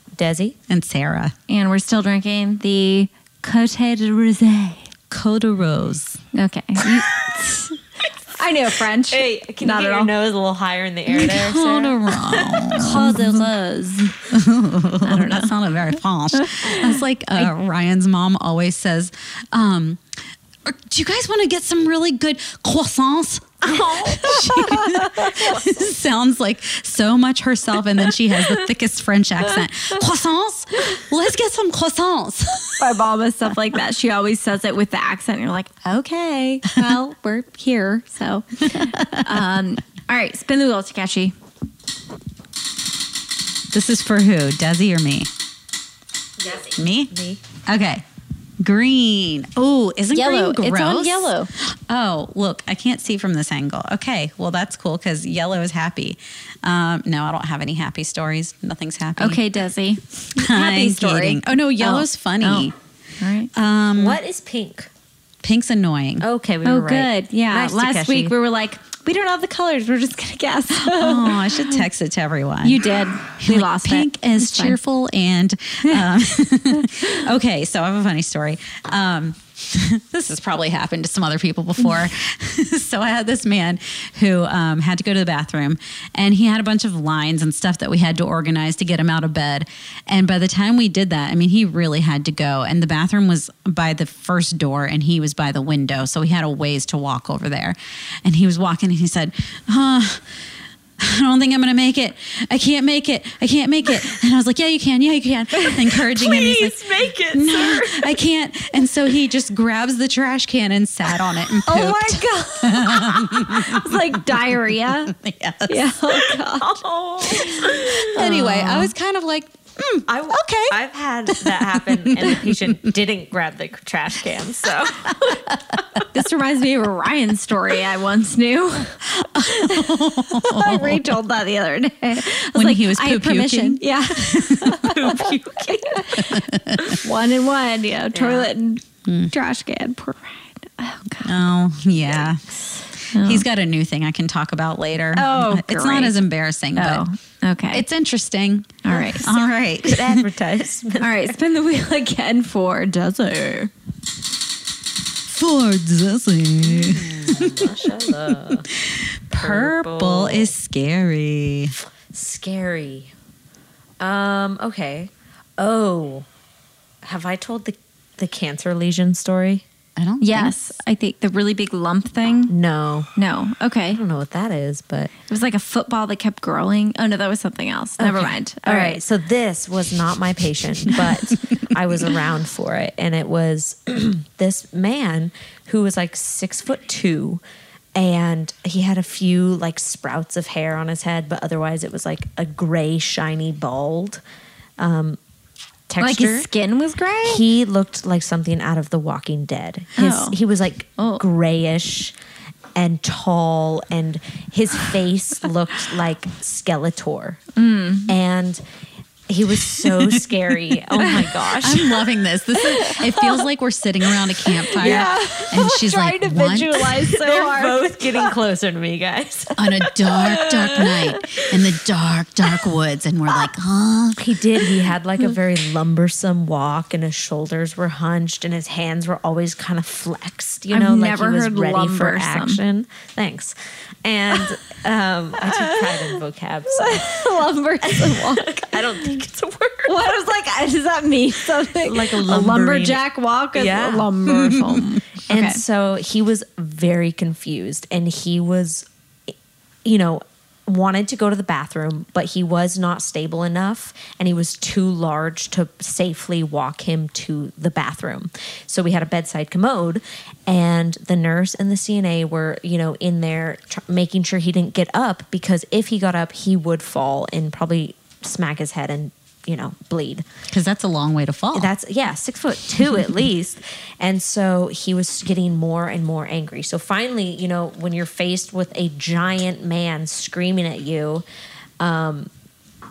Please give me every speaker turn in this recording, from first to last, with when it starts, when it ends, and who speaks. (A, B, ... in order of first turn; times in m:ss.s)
0:00.2-0:00.6 A
0:00.7-0:01.3 B
0:01.5-0:04.9 C
0:05.1-0:06.2 B
0:06.3-0:07.8 C
0:08.3-0:10.1 C
0:09.1-0:13.2 A
0:11.1-0:13.4 B
0:12.8-0:14.2 C
0:14.3-0:20.0 B
0:15.0-0:15.5 C
0:16.4-0:17.5 C
0:20.6-0:32.9 B
0:23.6-0:24.5 A
0:24.3-0:25.1 C
0:25.0-0:25.9 A
0:32.8-0:41.4 C
0:38.7-0:39.3 B
0:43.7-0:45.3 B
0:46.5-0:47.4 A
0:46.7-0:48.0 B
0:48.6-0:59.4 B
0:50.1-0:51.5 C
0:59.2-1:03.5 C
1:00.4-1:02.8 B
1:03.5-1:04.2 B
1:03.9-1:04.9 A
1:05.4-1:06.3 B
1:06.2-1:08.3 A
1:06.6-1:11.9 C
1:10.8-1:12.8 B
1:12.6-1:14.8 C
1:13.4-1:40.2 B
1:41.0-1:56.3 B
1:46.0-1:48.2 A
1:51.6-1:55.1 C
1:55.7-1:58.9 C
1:56.6-1:58.3 A
1:57.6-2:00.8 B
2:00.1-2:05.5 A
2:01.3-2:02.8 B
2:05.2-2:05.6 B
2:06.1-2:16.3 C
2:09.0-2:11.1 B
2:12.5-2:14.8 B
2:14.8-2:16.2 A
2:16.1-2:17.0 B
2:16.9-2:21.4 C
2:18.1-2:18.5 A
2:19.1-2:19.3 B
2:21.2-2:22.4 B
2:23.1-2:23.5 C
2:23.1-2:27.0 B
2:25.1-2:26.2 C
2:26.8-2:27.8 C
2:27.7-2:30.3 B
2:28.8-2:29.3 C
2:28.9-2:29.3 A
2:29.8-2:31.4 A
2:31.0-2:33.7 C
2:35.3-2:41.7 B
2:36.6-2:38.7 A
2:39.3-2:40.5 A
2:42.1-2:43.1 A
2:44.0-2:46.3 A
2:47.0-2:49.6 A
2:50.0-2:50.7 B
2:50.2-2:52.6 C
2:52.5-2:53.1 A
2:53.2-2:54.0 C
2:53.9-2:55.1 A
2:55.3-2:59.0 C
2:58.0-3:07.4 A
3:08.0-3:14.2 A
3:14.8-3:15.2 A
3:15.9-3:16.5 A
3:16.0-3:17.5 C
3:17.2-3:22.1 A
3:20.0-3:20.4 C
3:21.0-3:21.2 C
3:22.8-3:27.4 A
3:27.6-3:28.1 C
3:28.1-3:28.6 A
3:29.3-3:31.9 A
3:31.5-3:36.9 B
3:32.5-3:33.5 C
3:34.7-3:38.3 C
3:34.8-3:35.2 A
3:37.0-3:41.0 A
3:39.6-3:44.7 B
3:44.2-3:57.3 A
3:50.7-3:52.6 C
3:55.4-3:56.2 C
3:56.7-3:59.2 C
3:57.8-4:00.1 A
3:59.8-4:05.6 C
4:01.8-4:03.0 A
4:03.5-4:04.1 A
4:04.3-4:05.0 B
4:05.3-4:08.9 A
4:09.8-4:30.2 A
4:30.5-4:31.7 B
4:31.5-4:41.2 A
4:41.8-4:42.3 A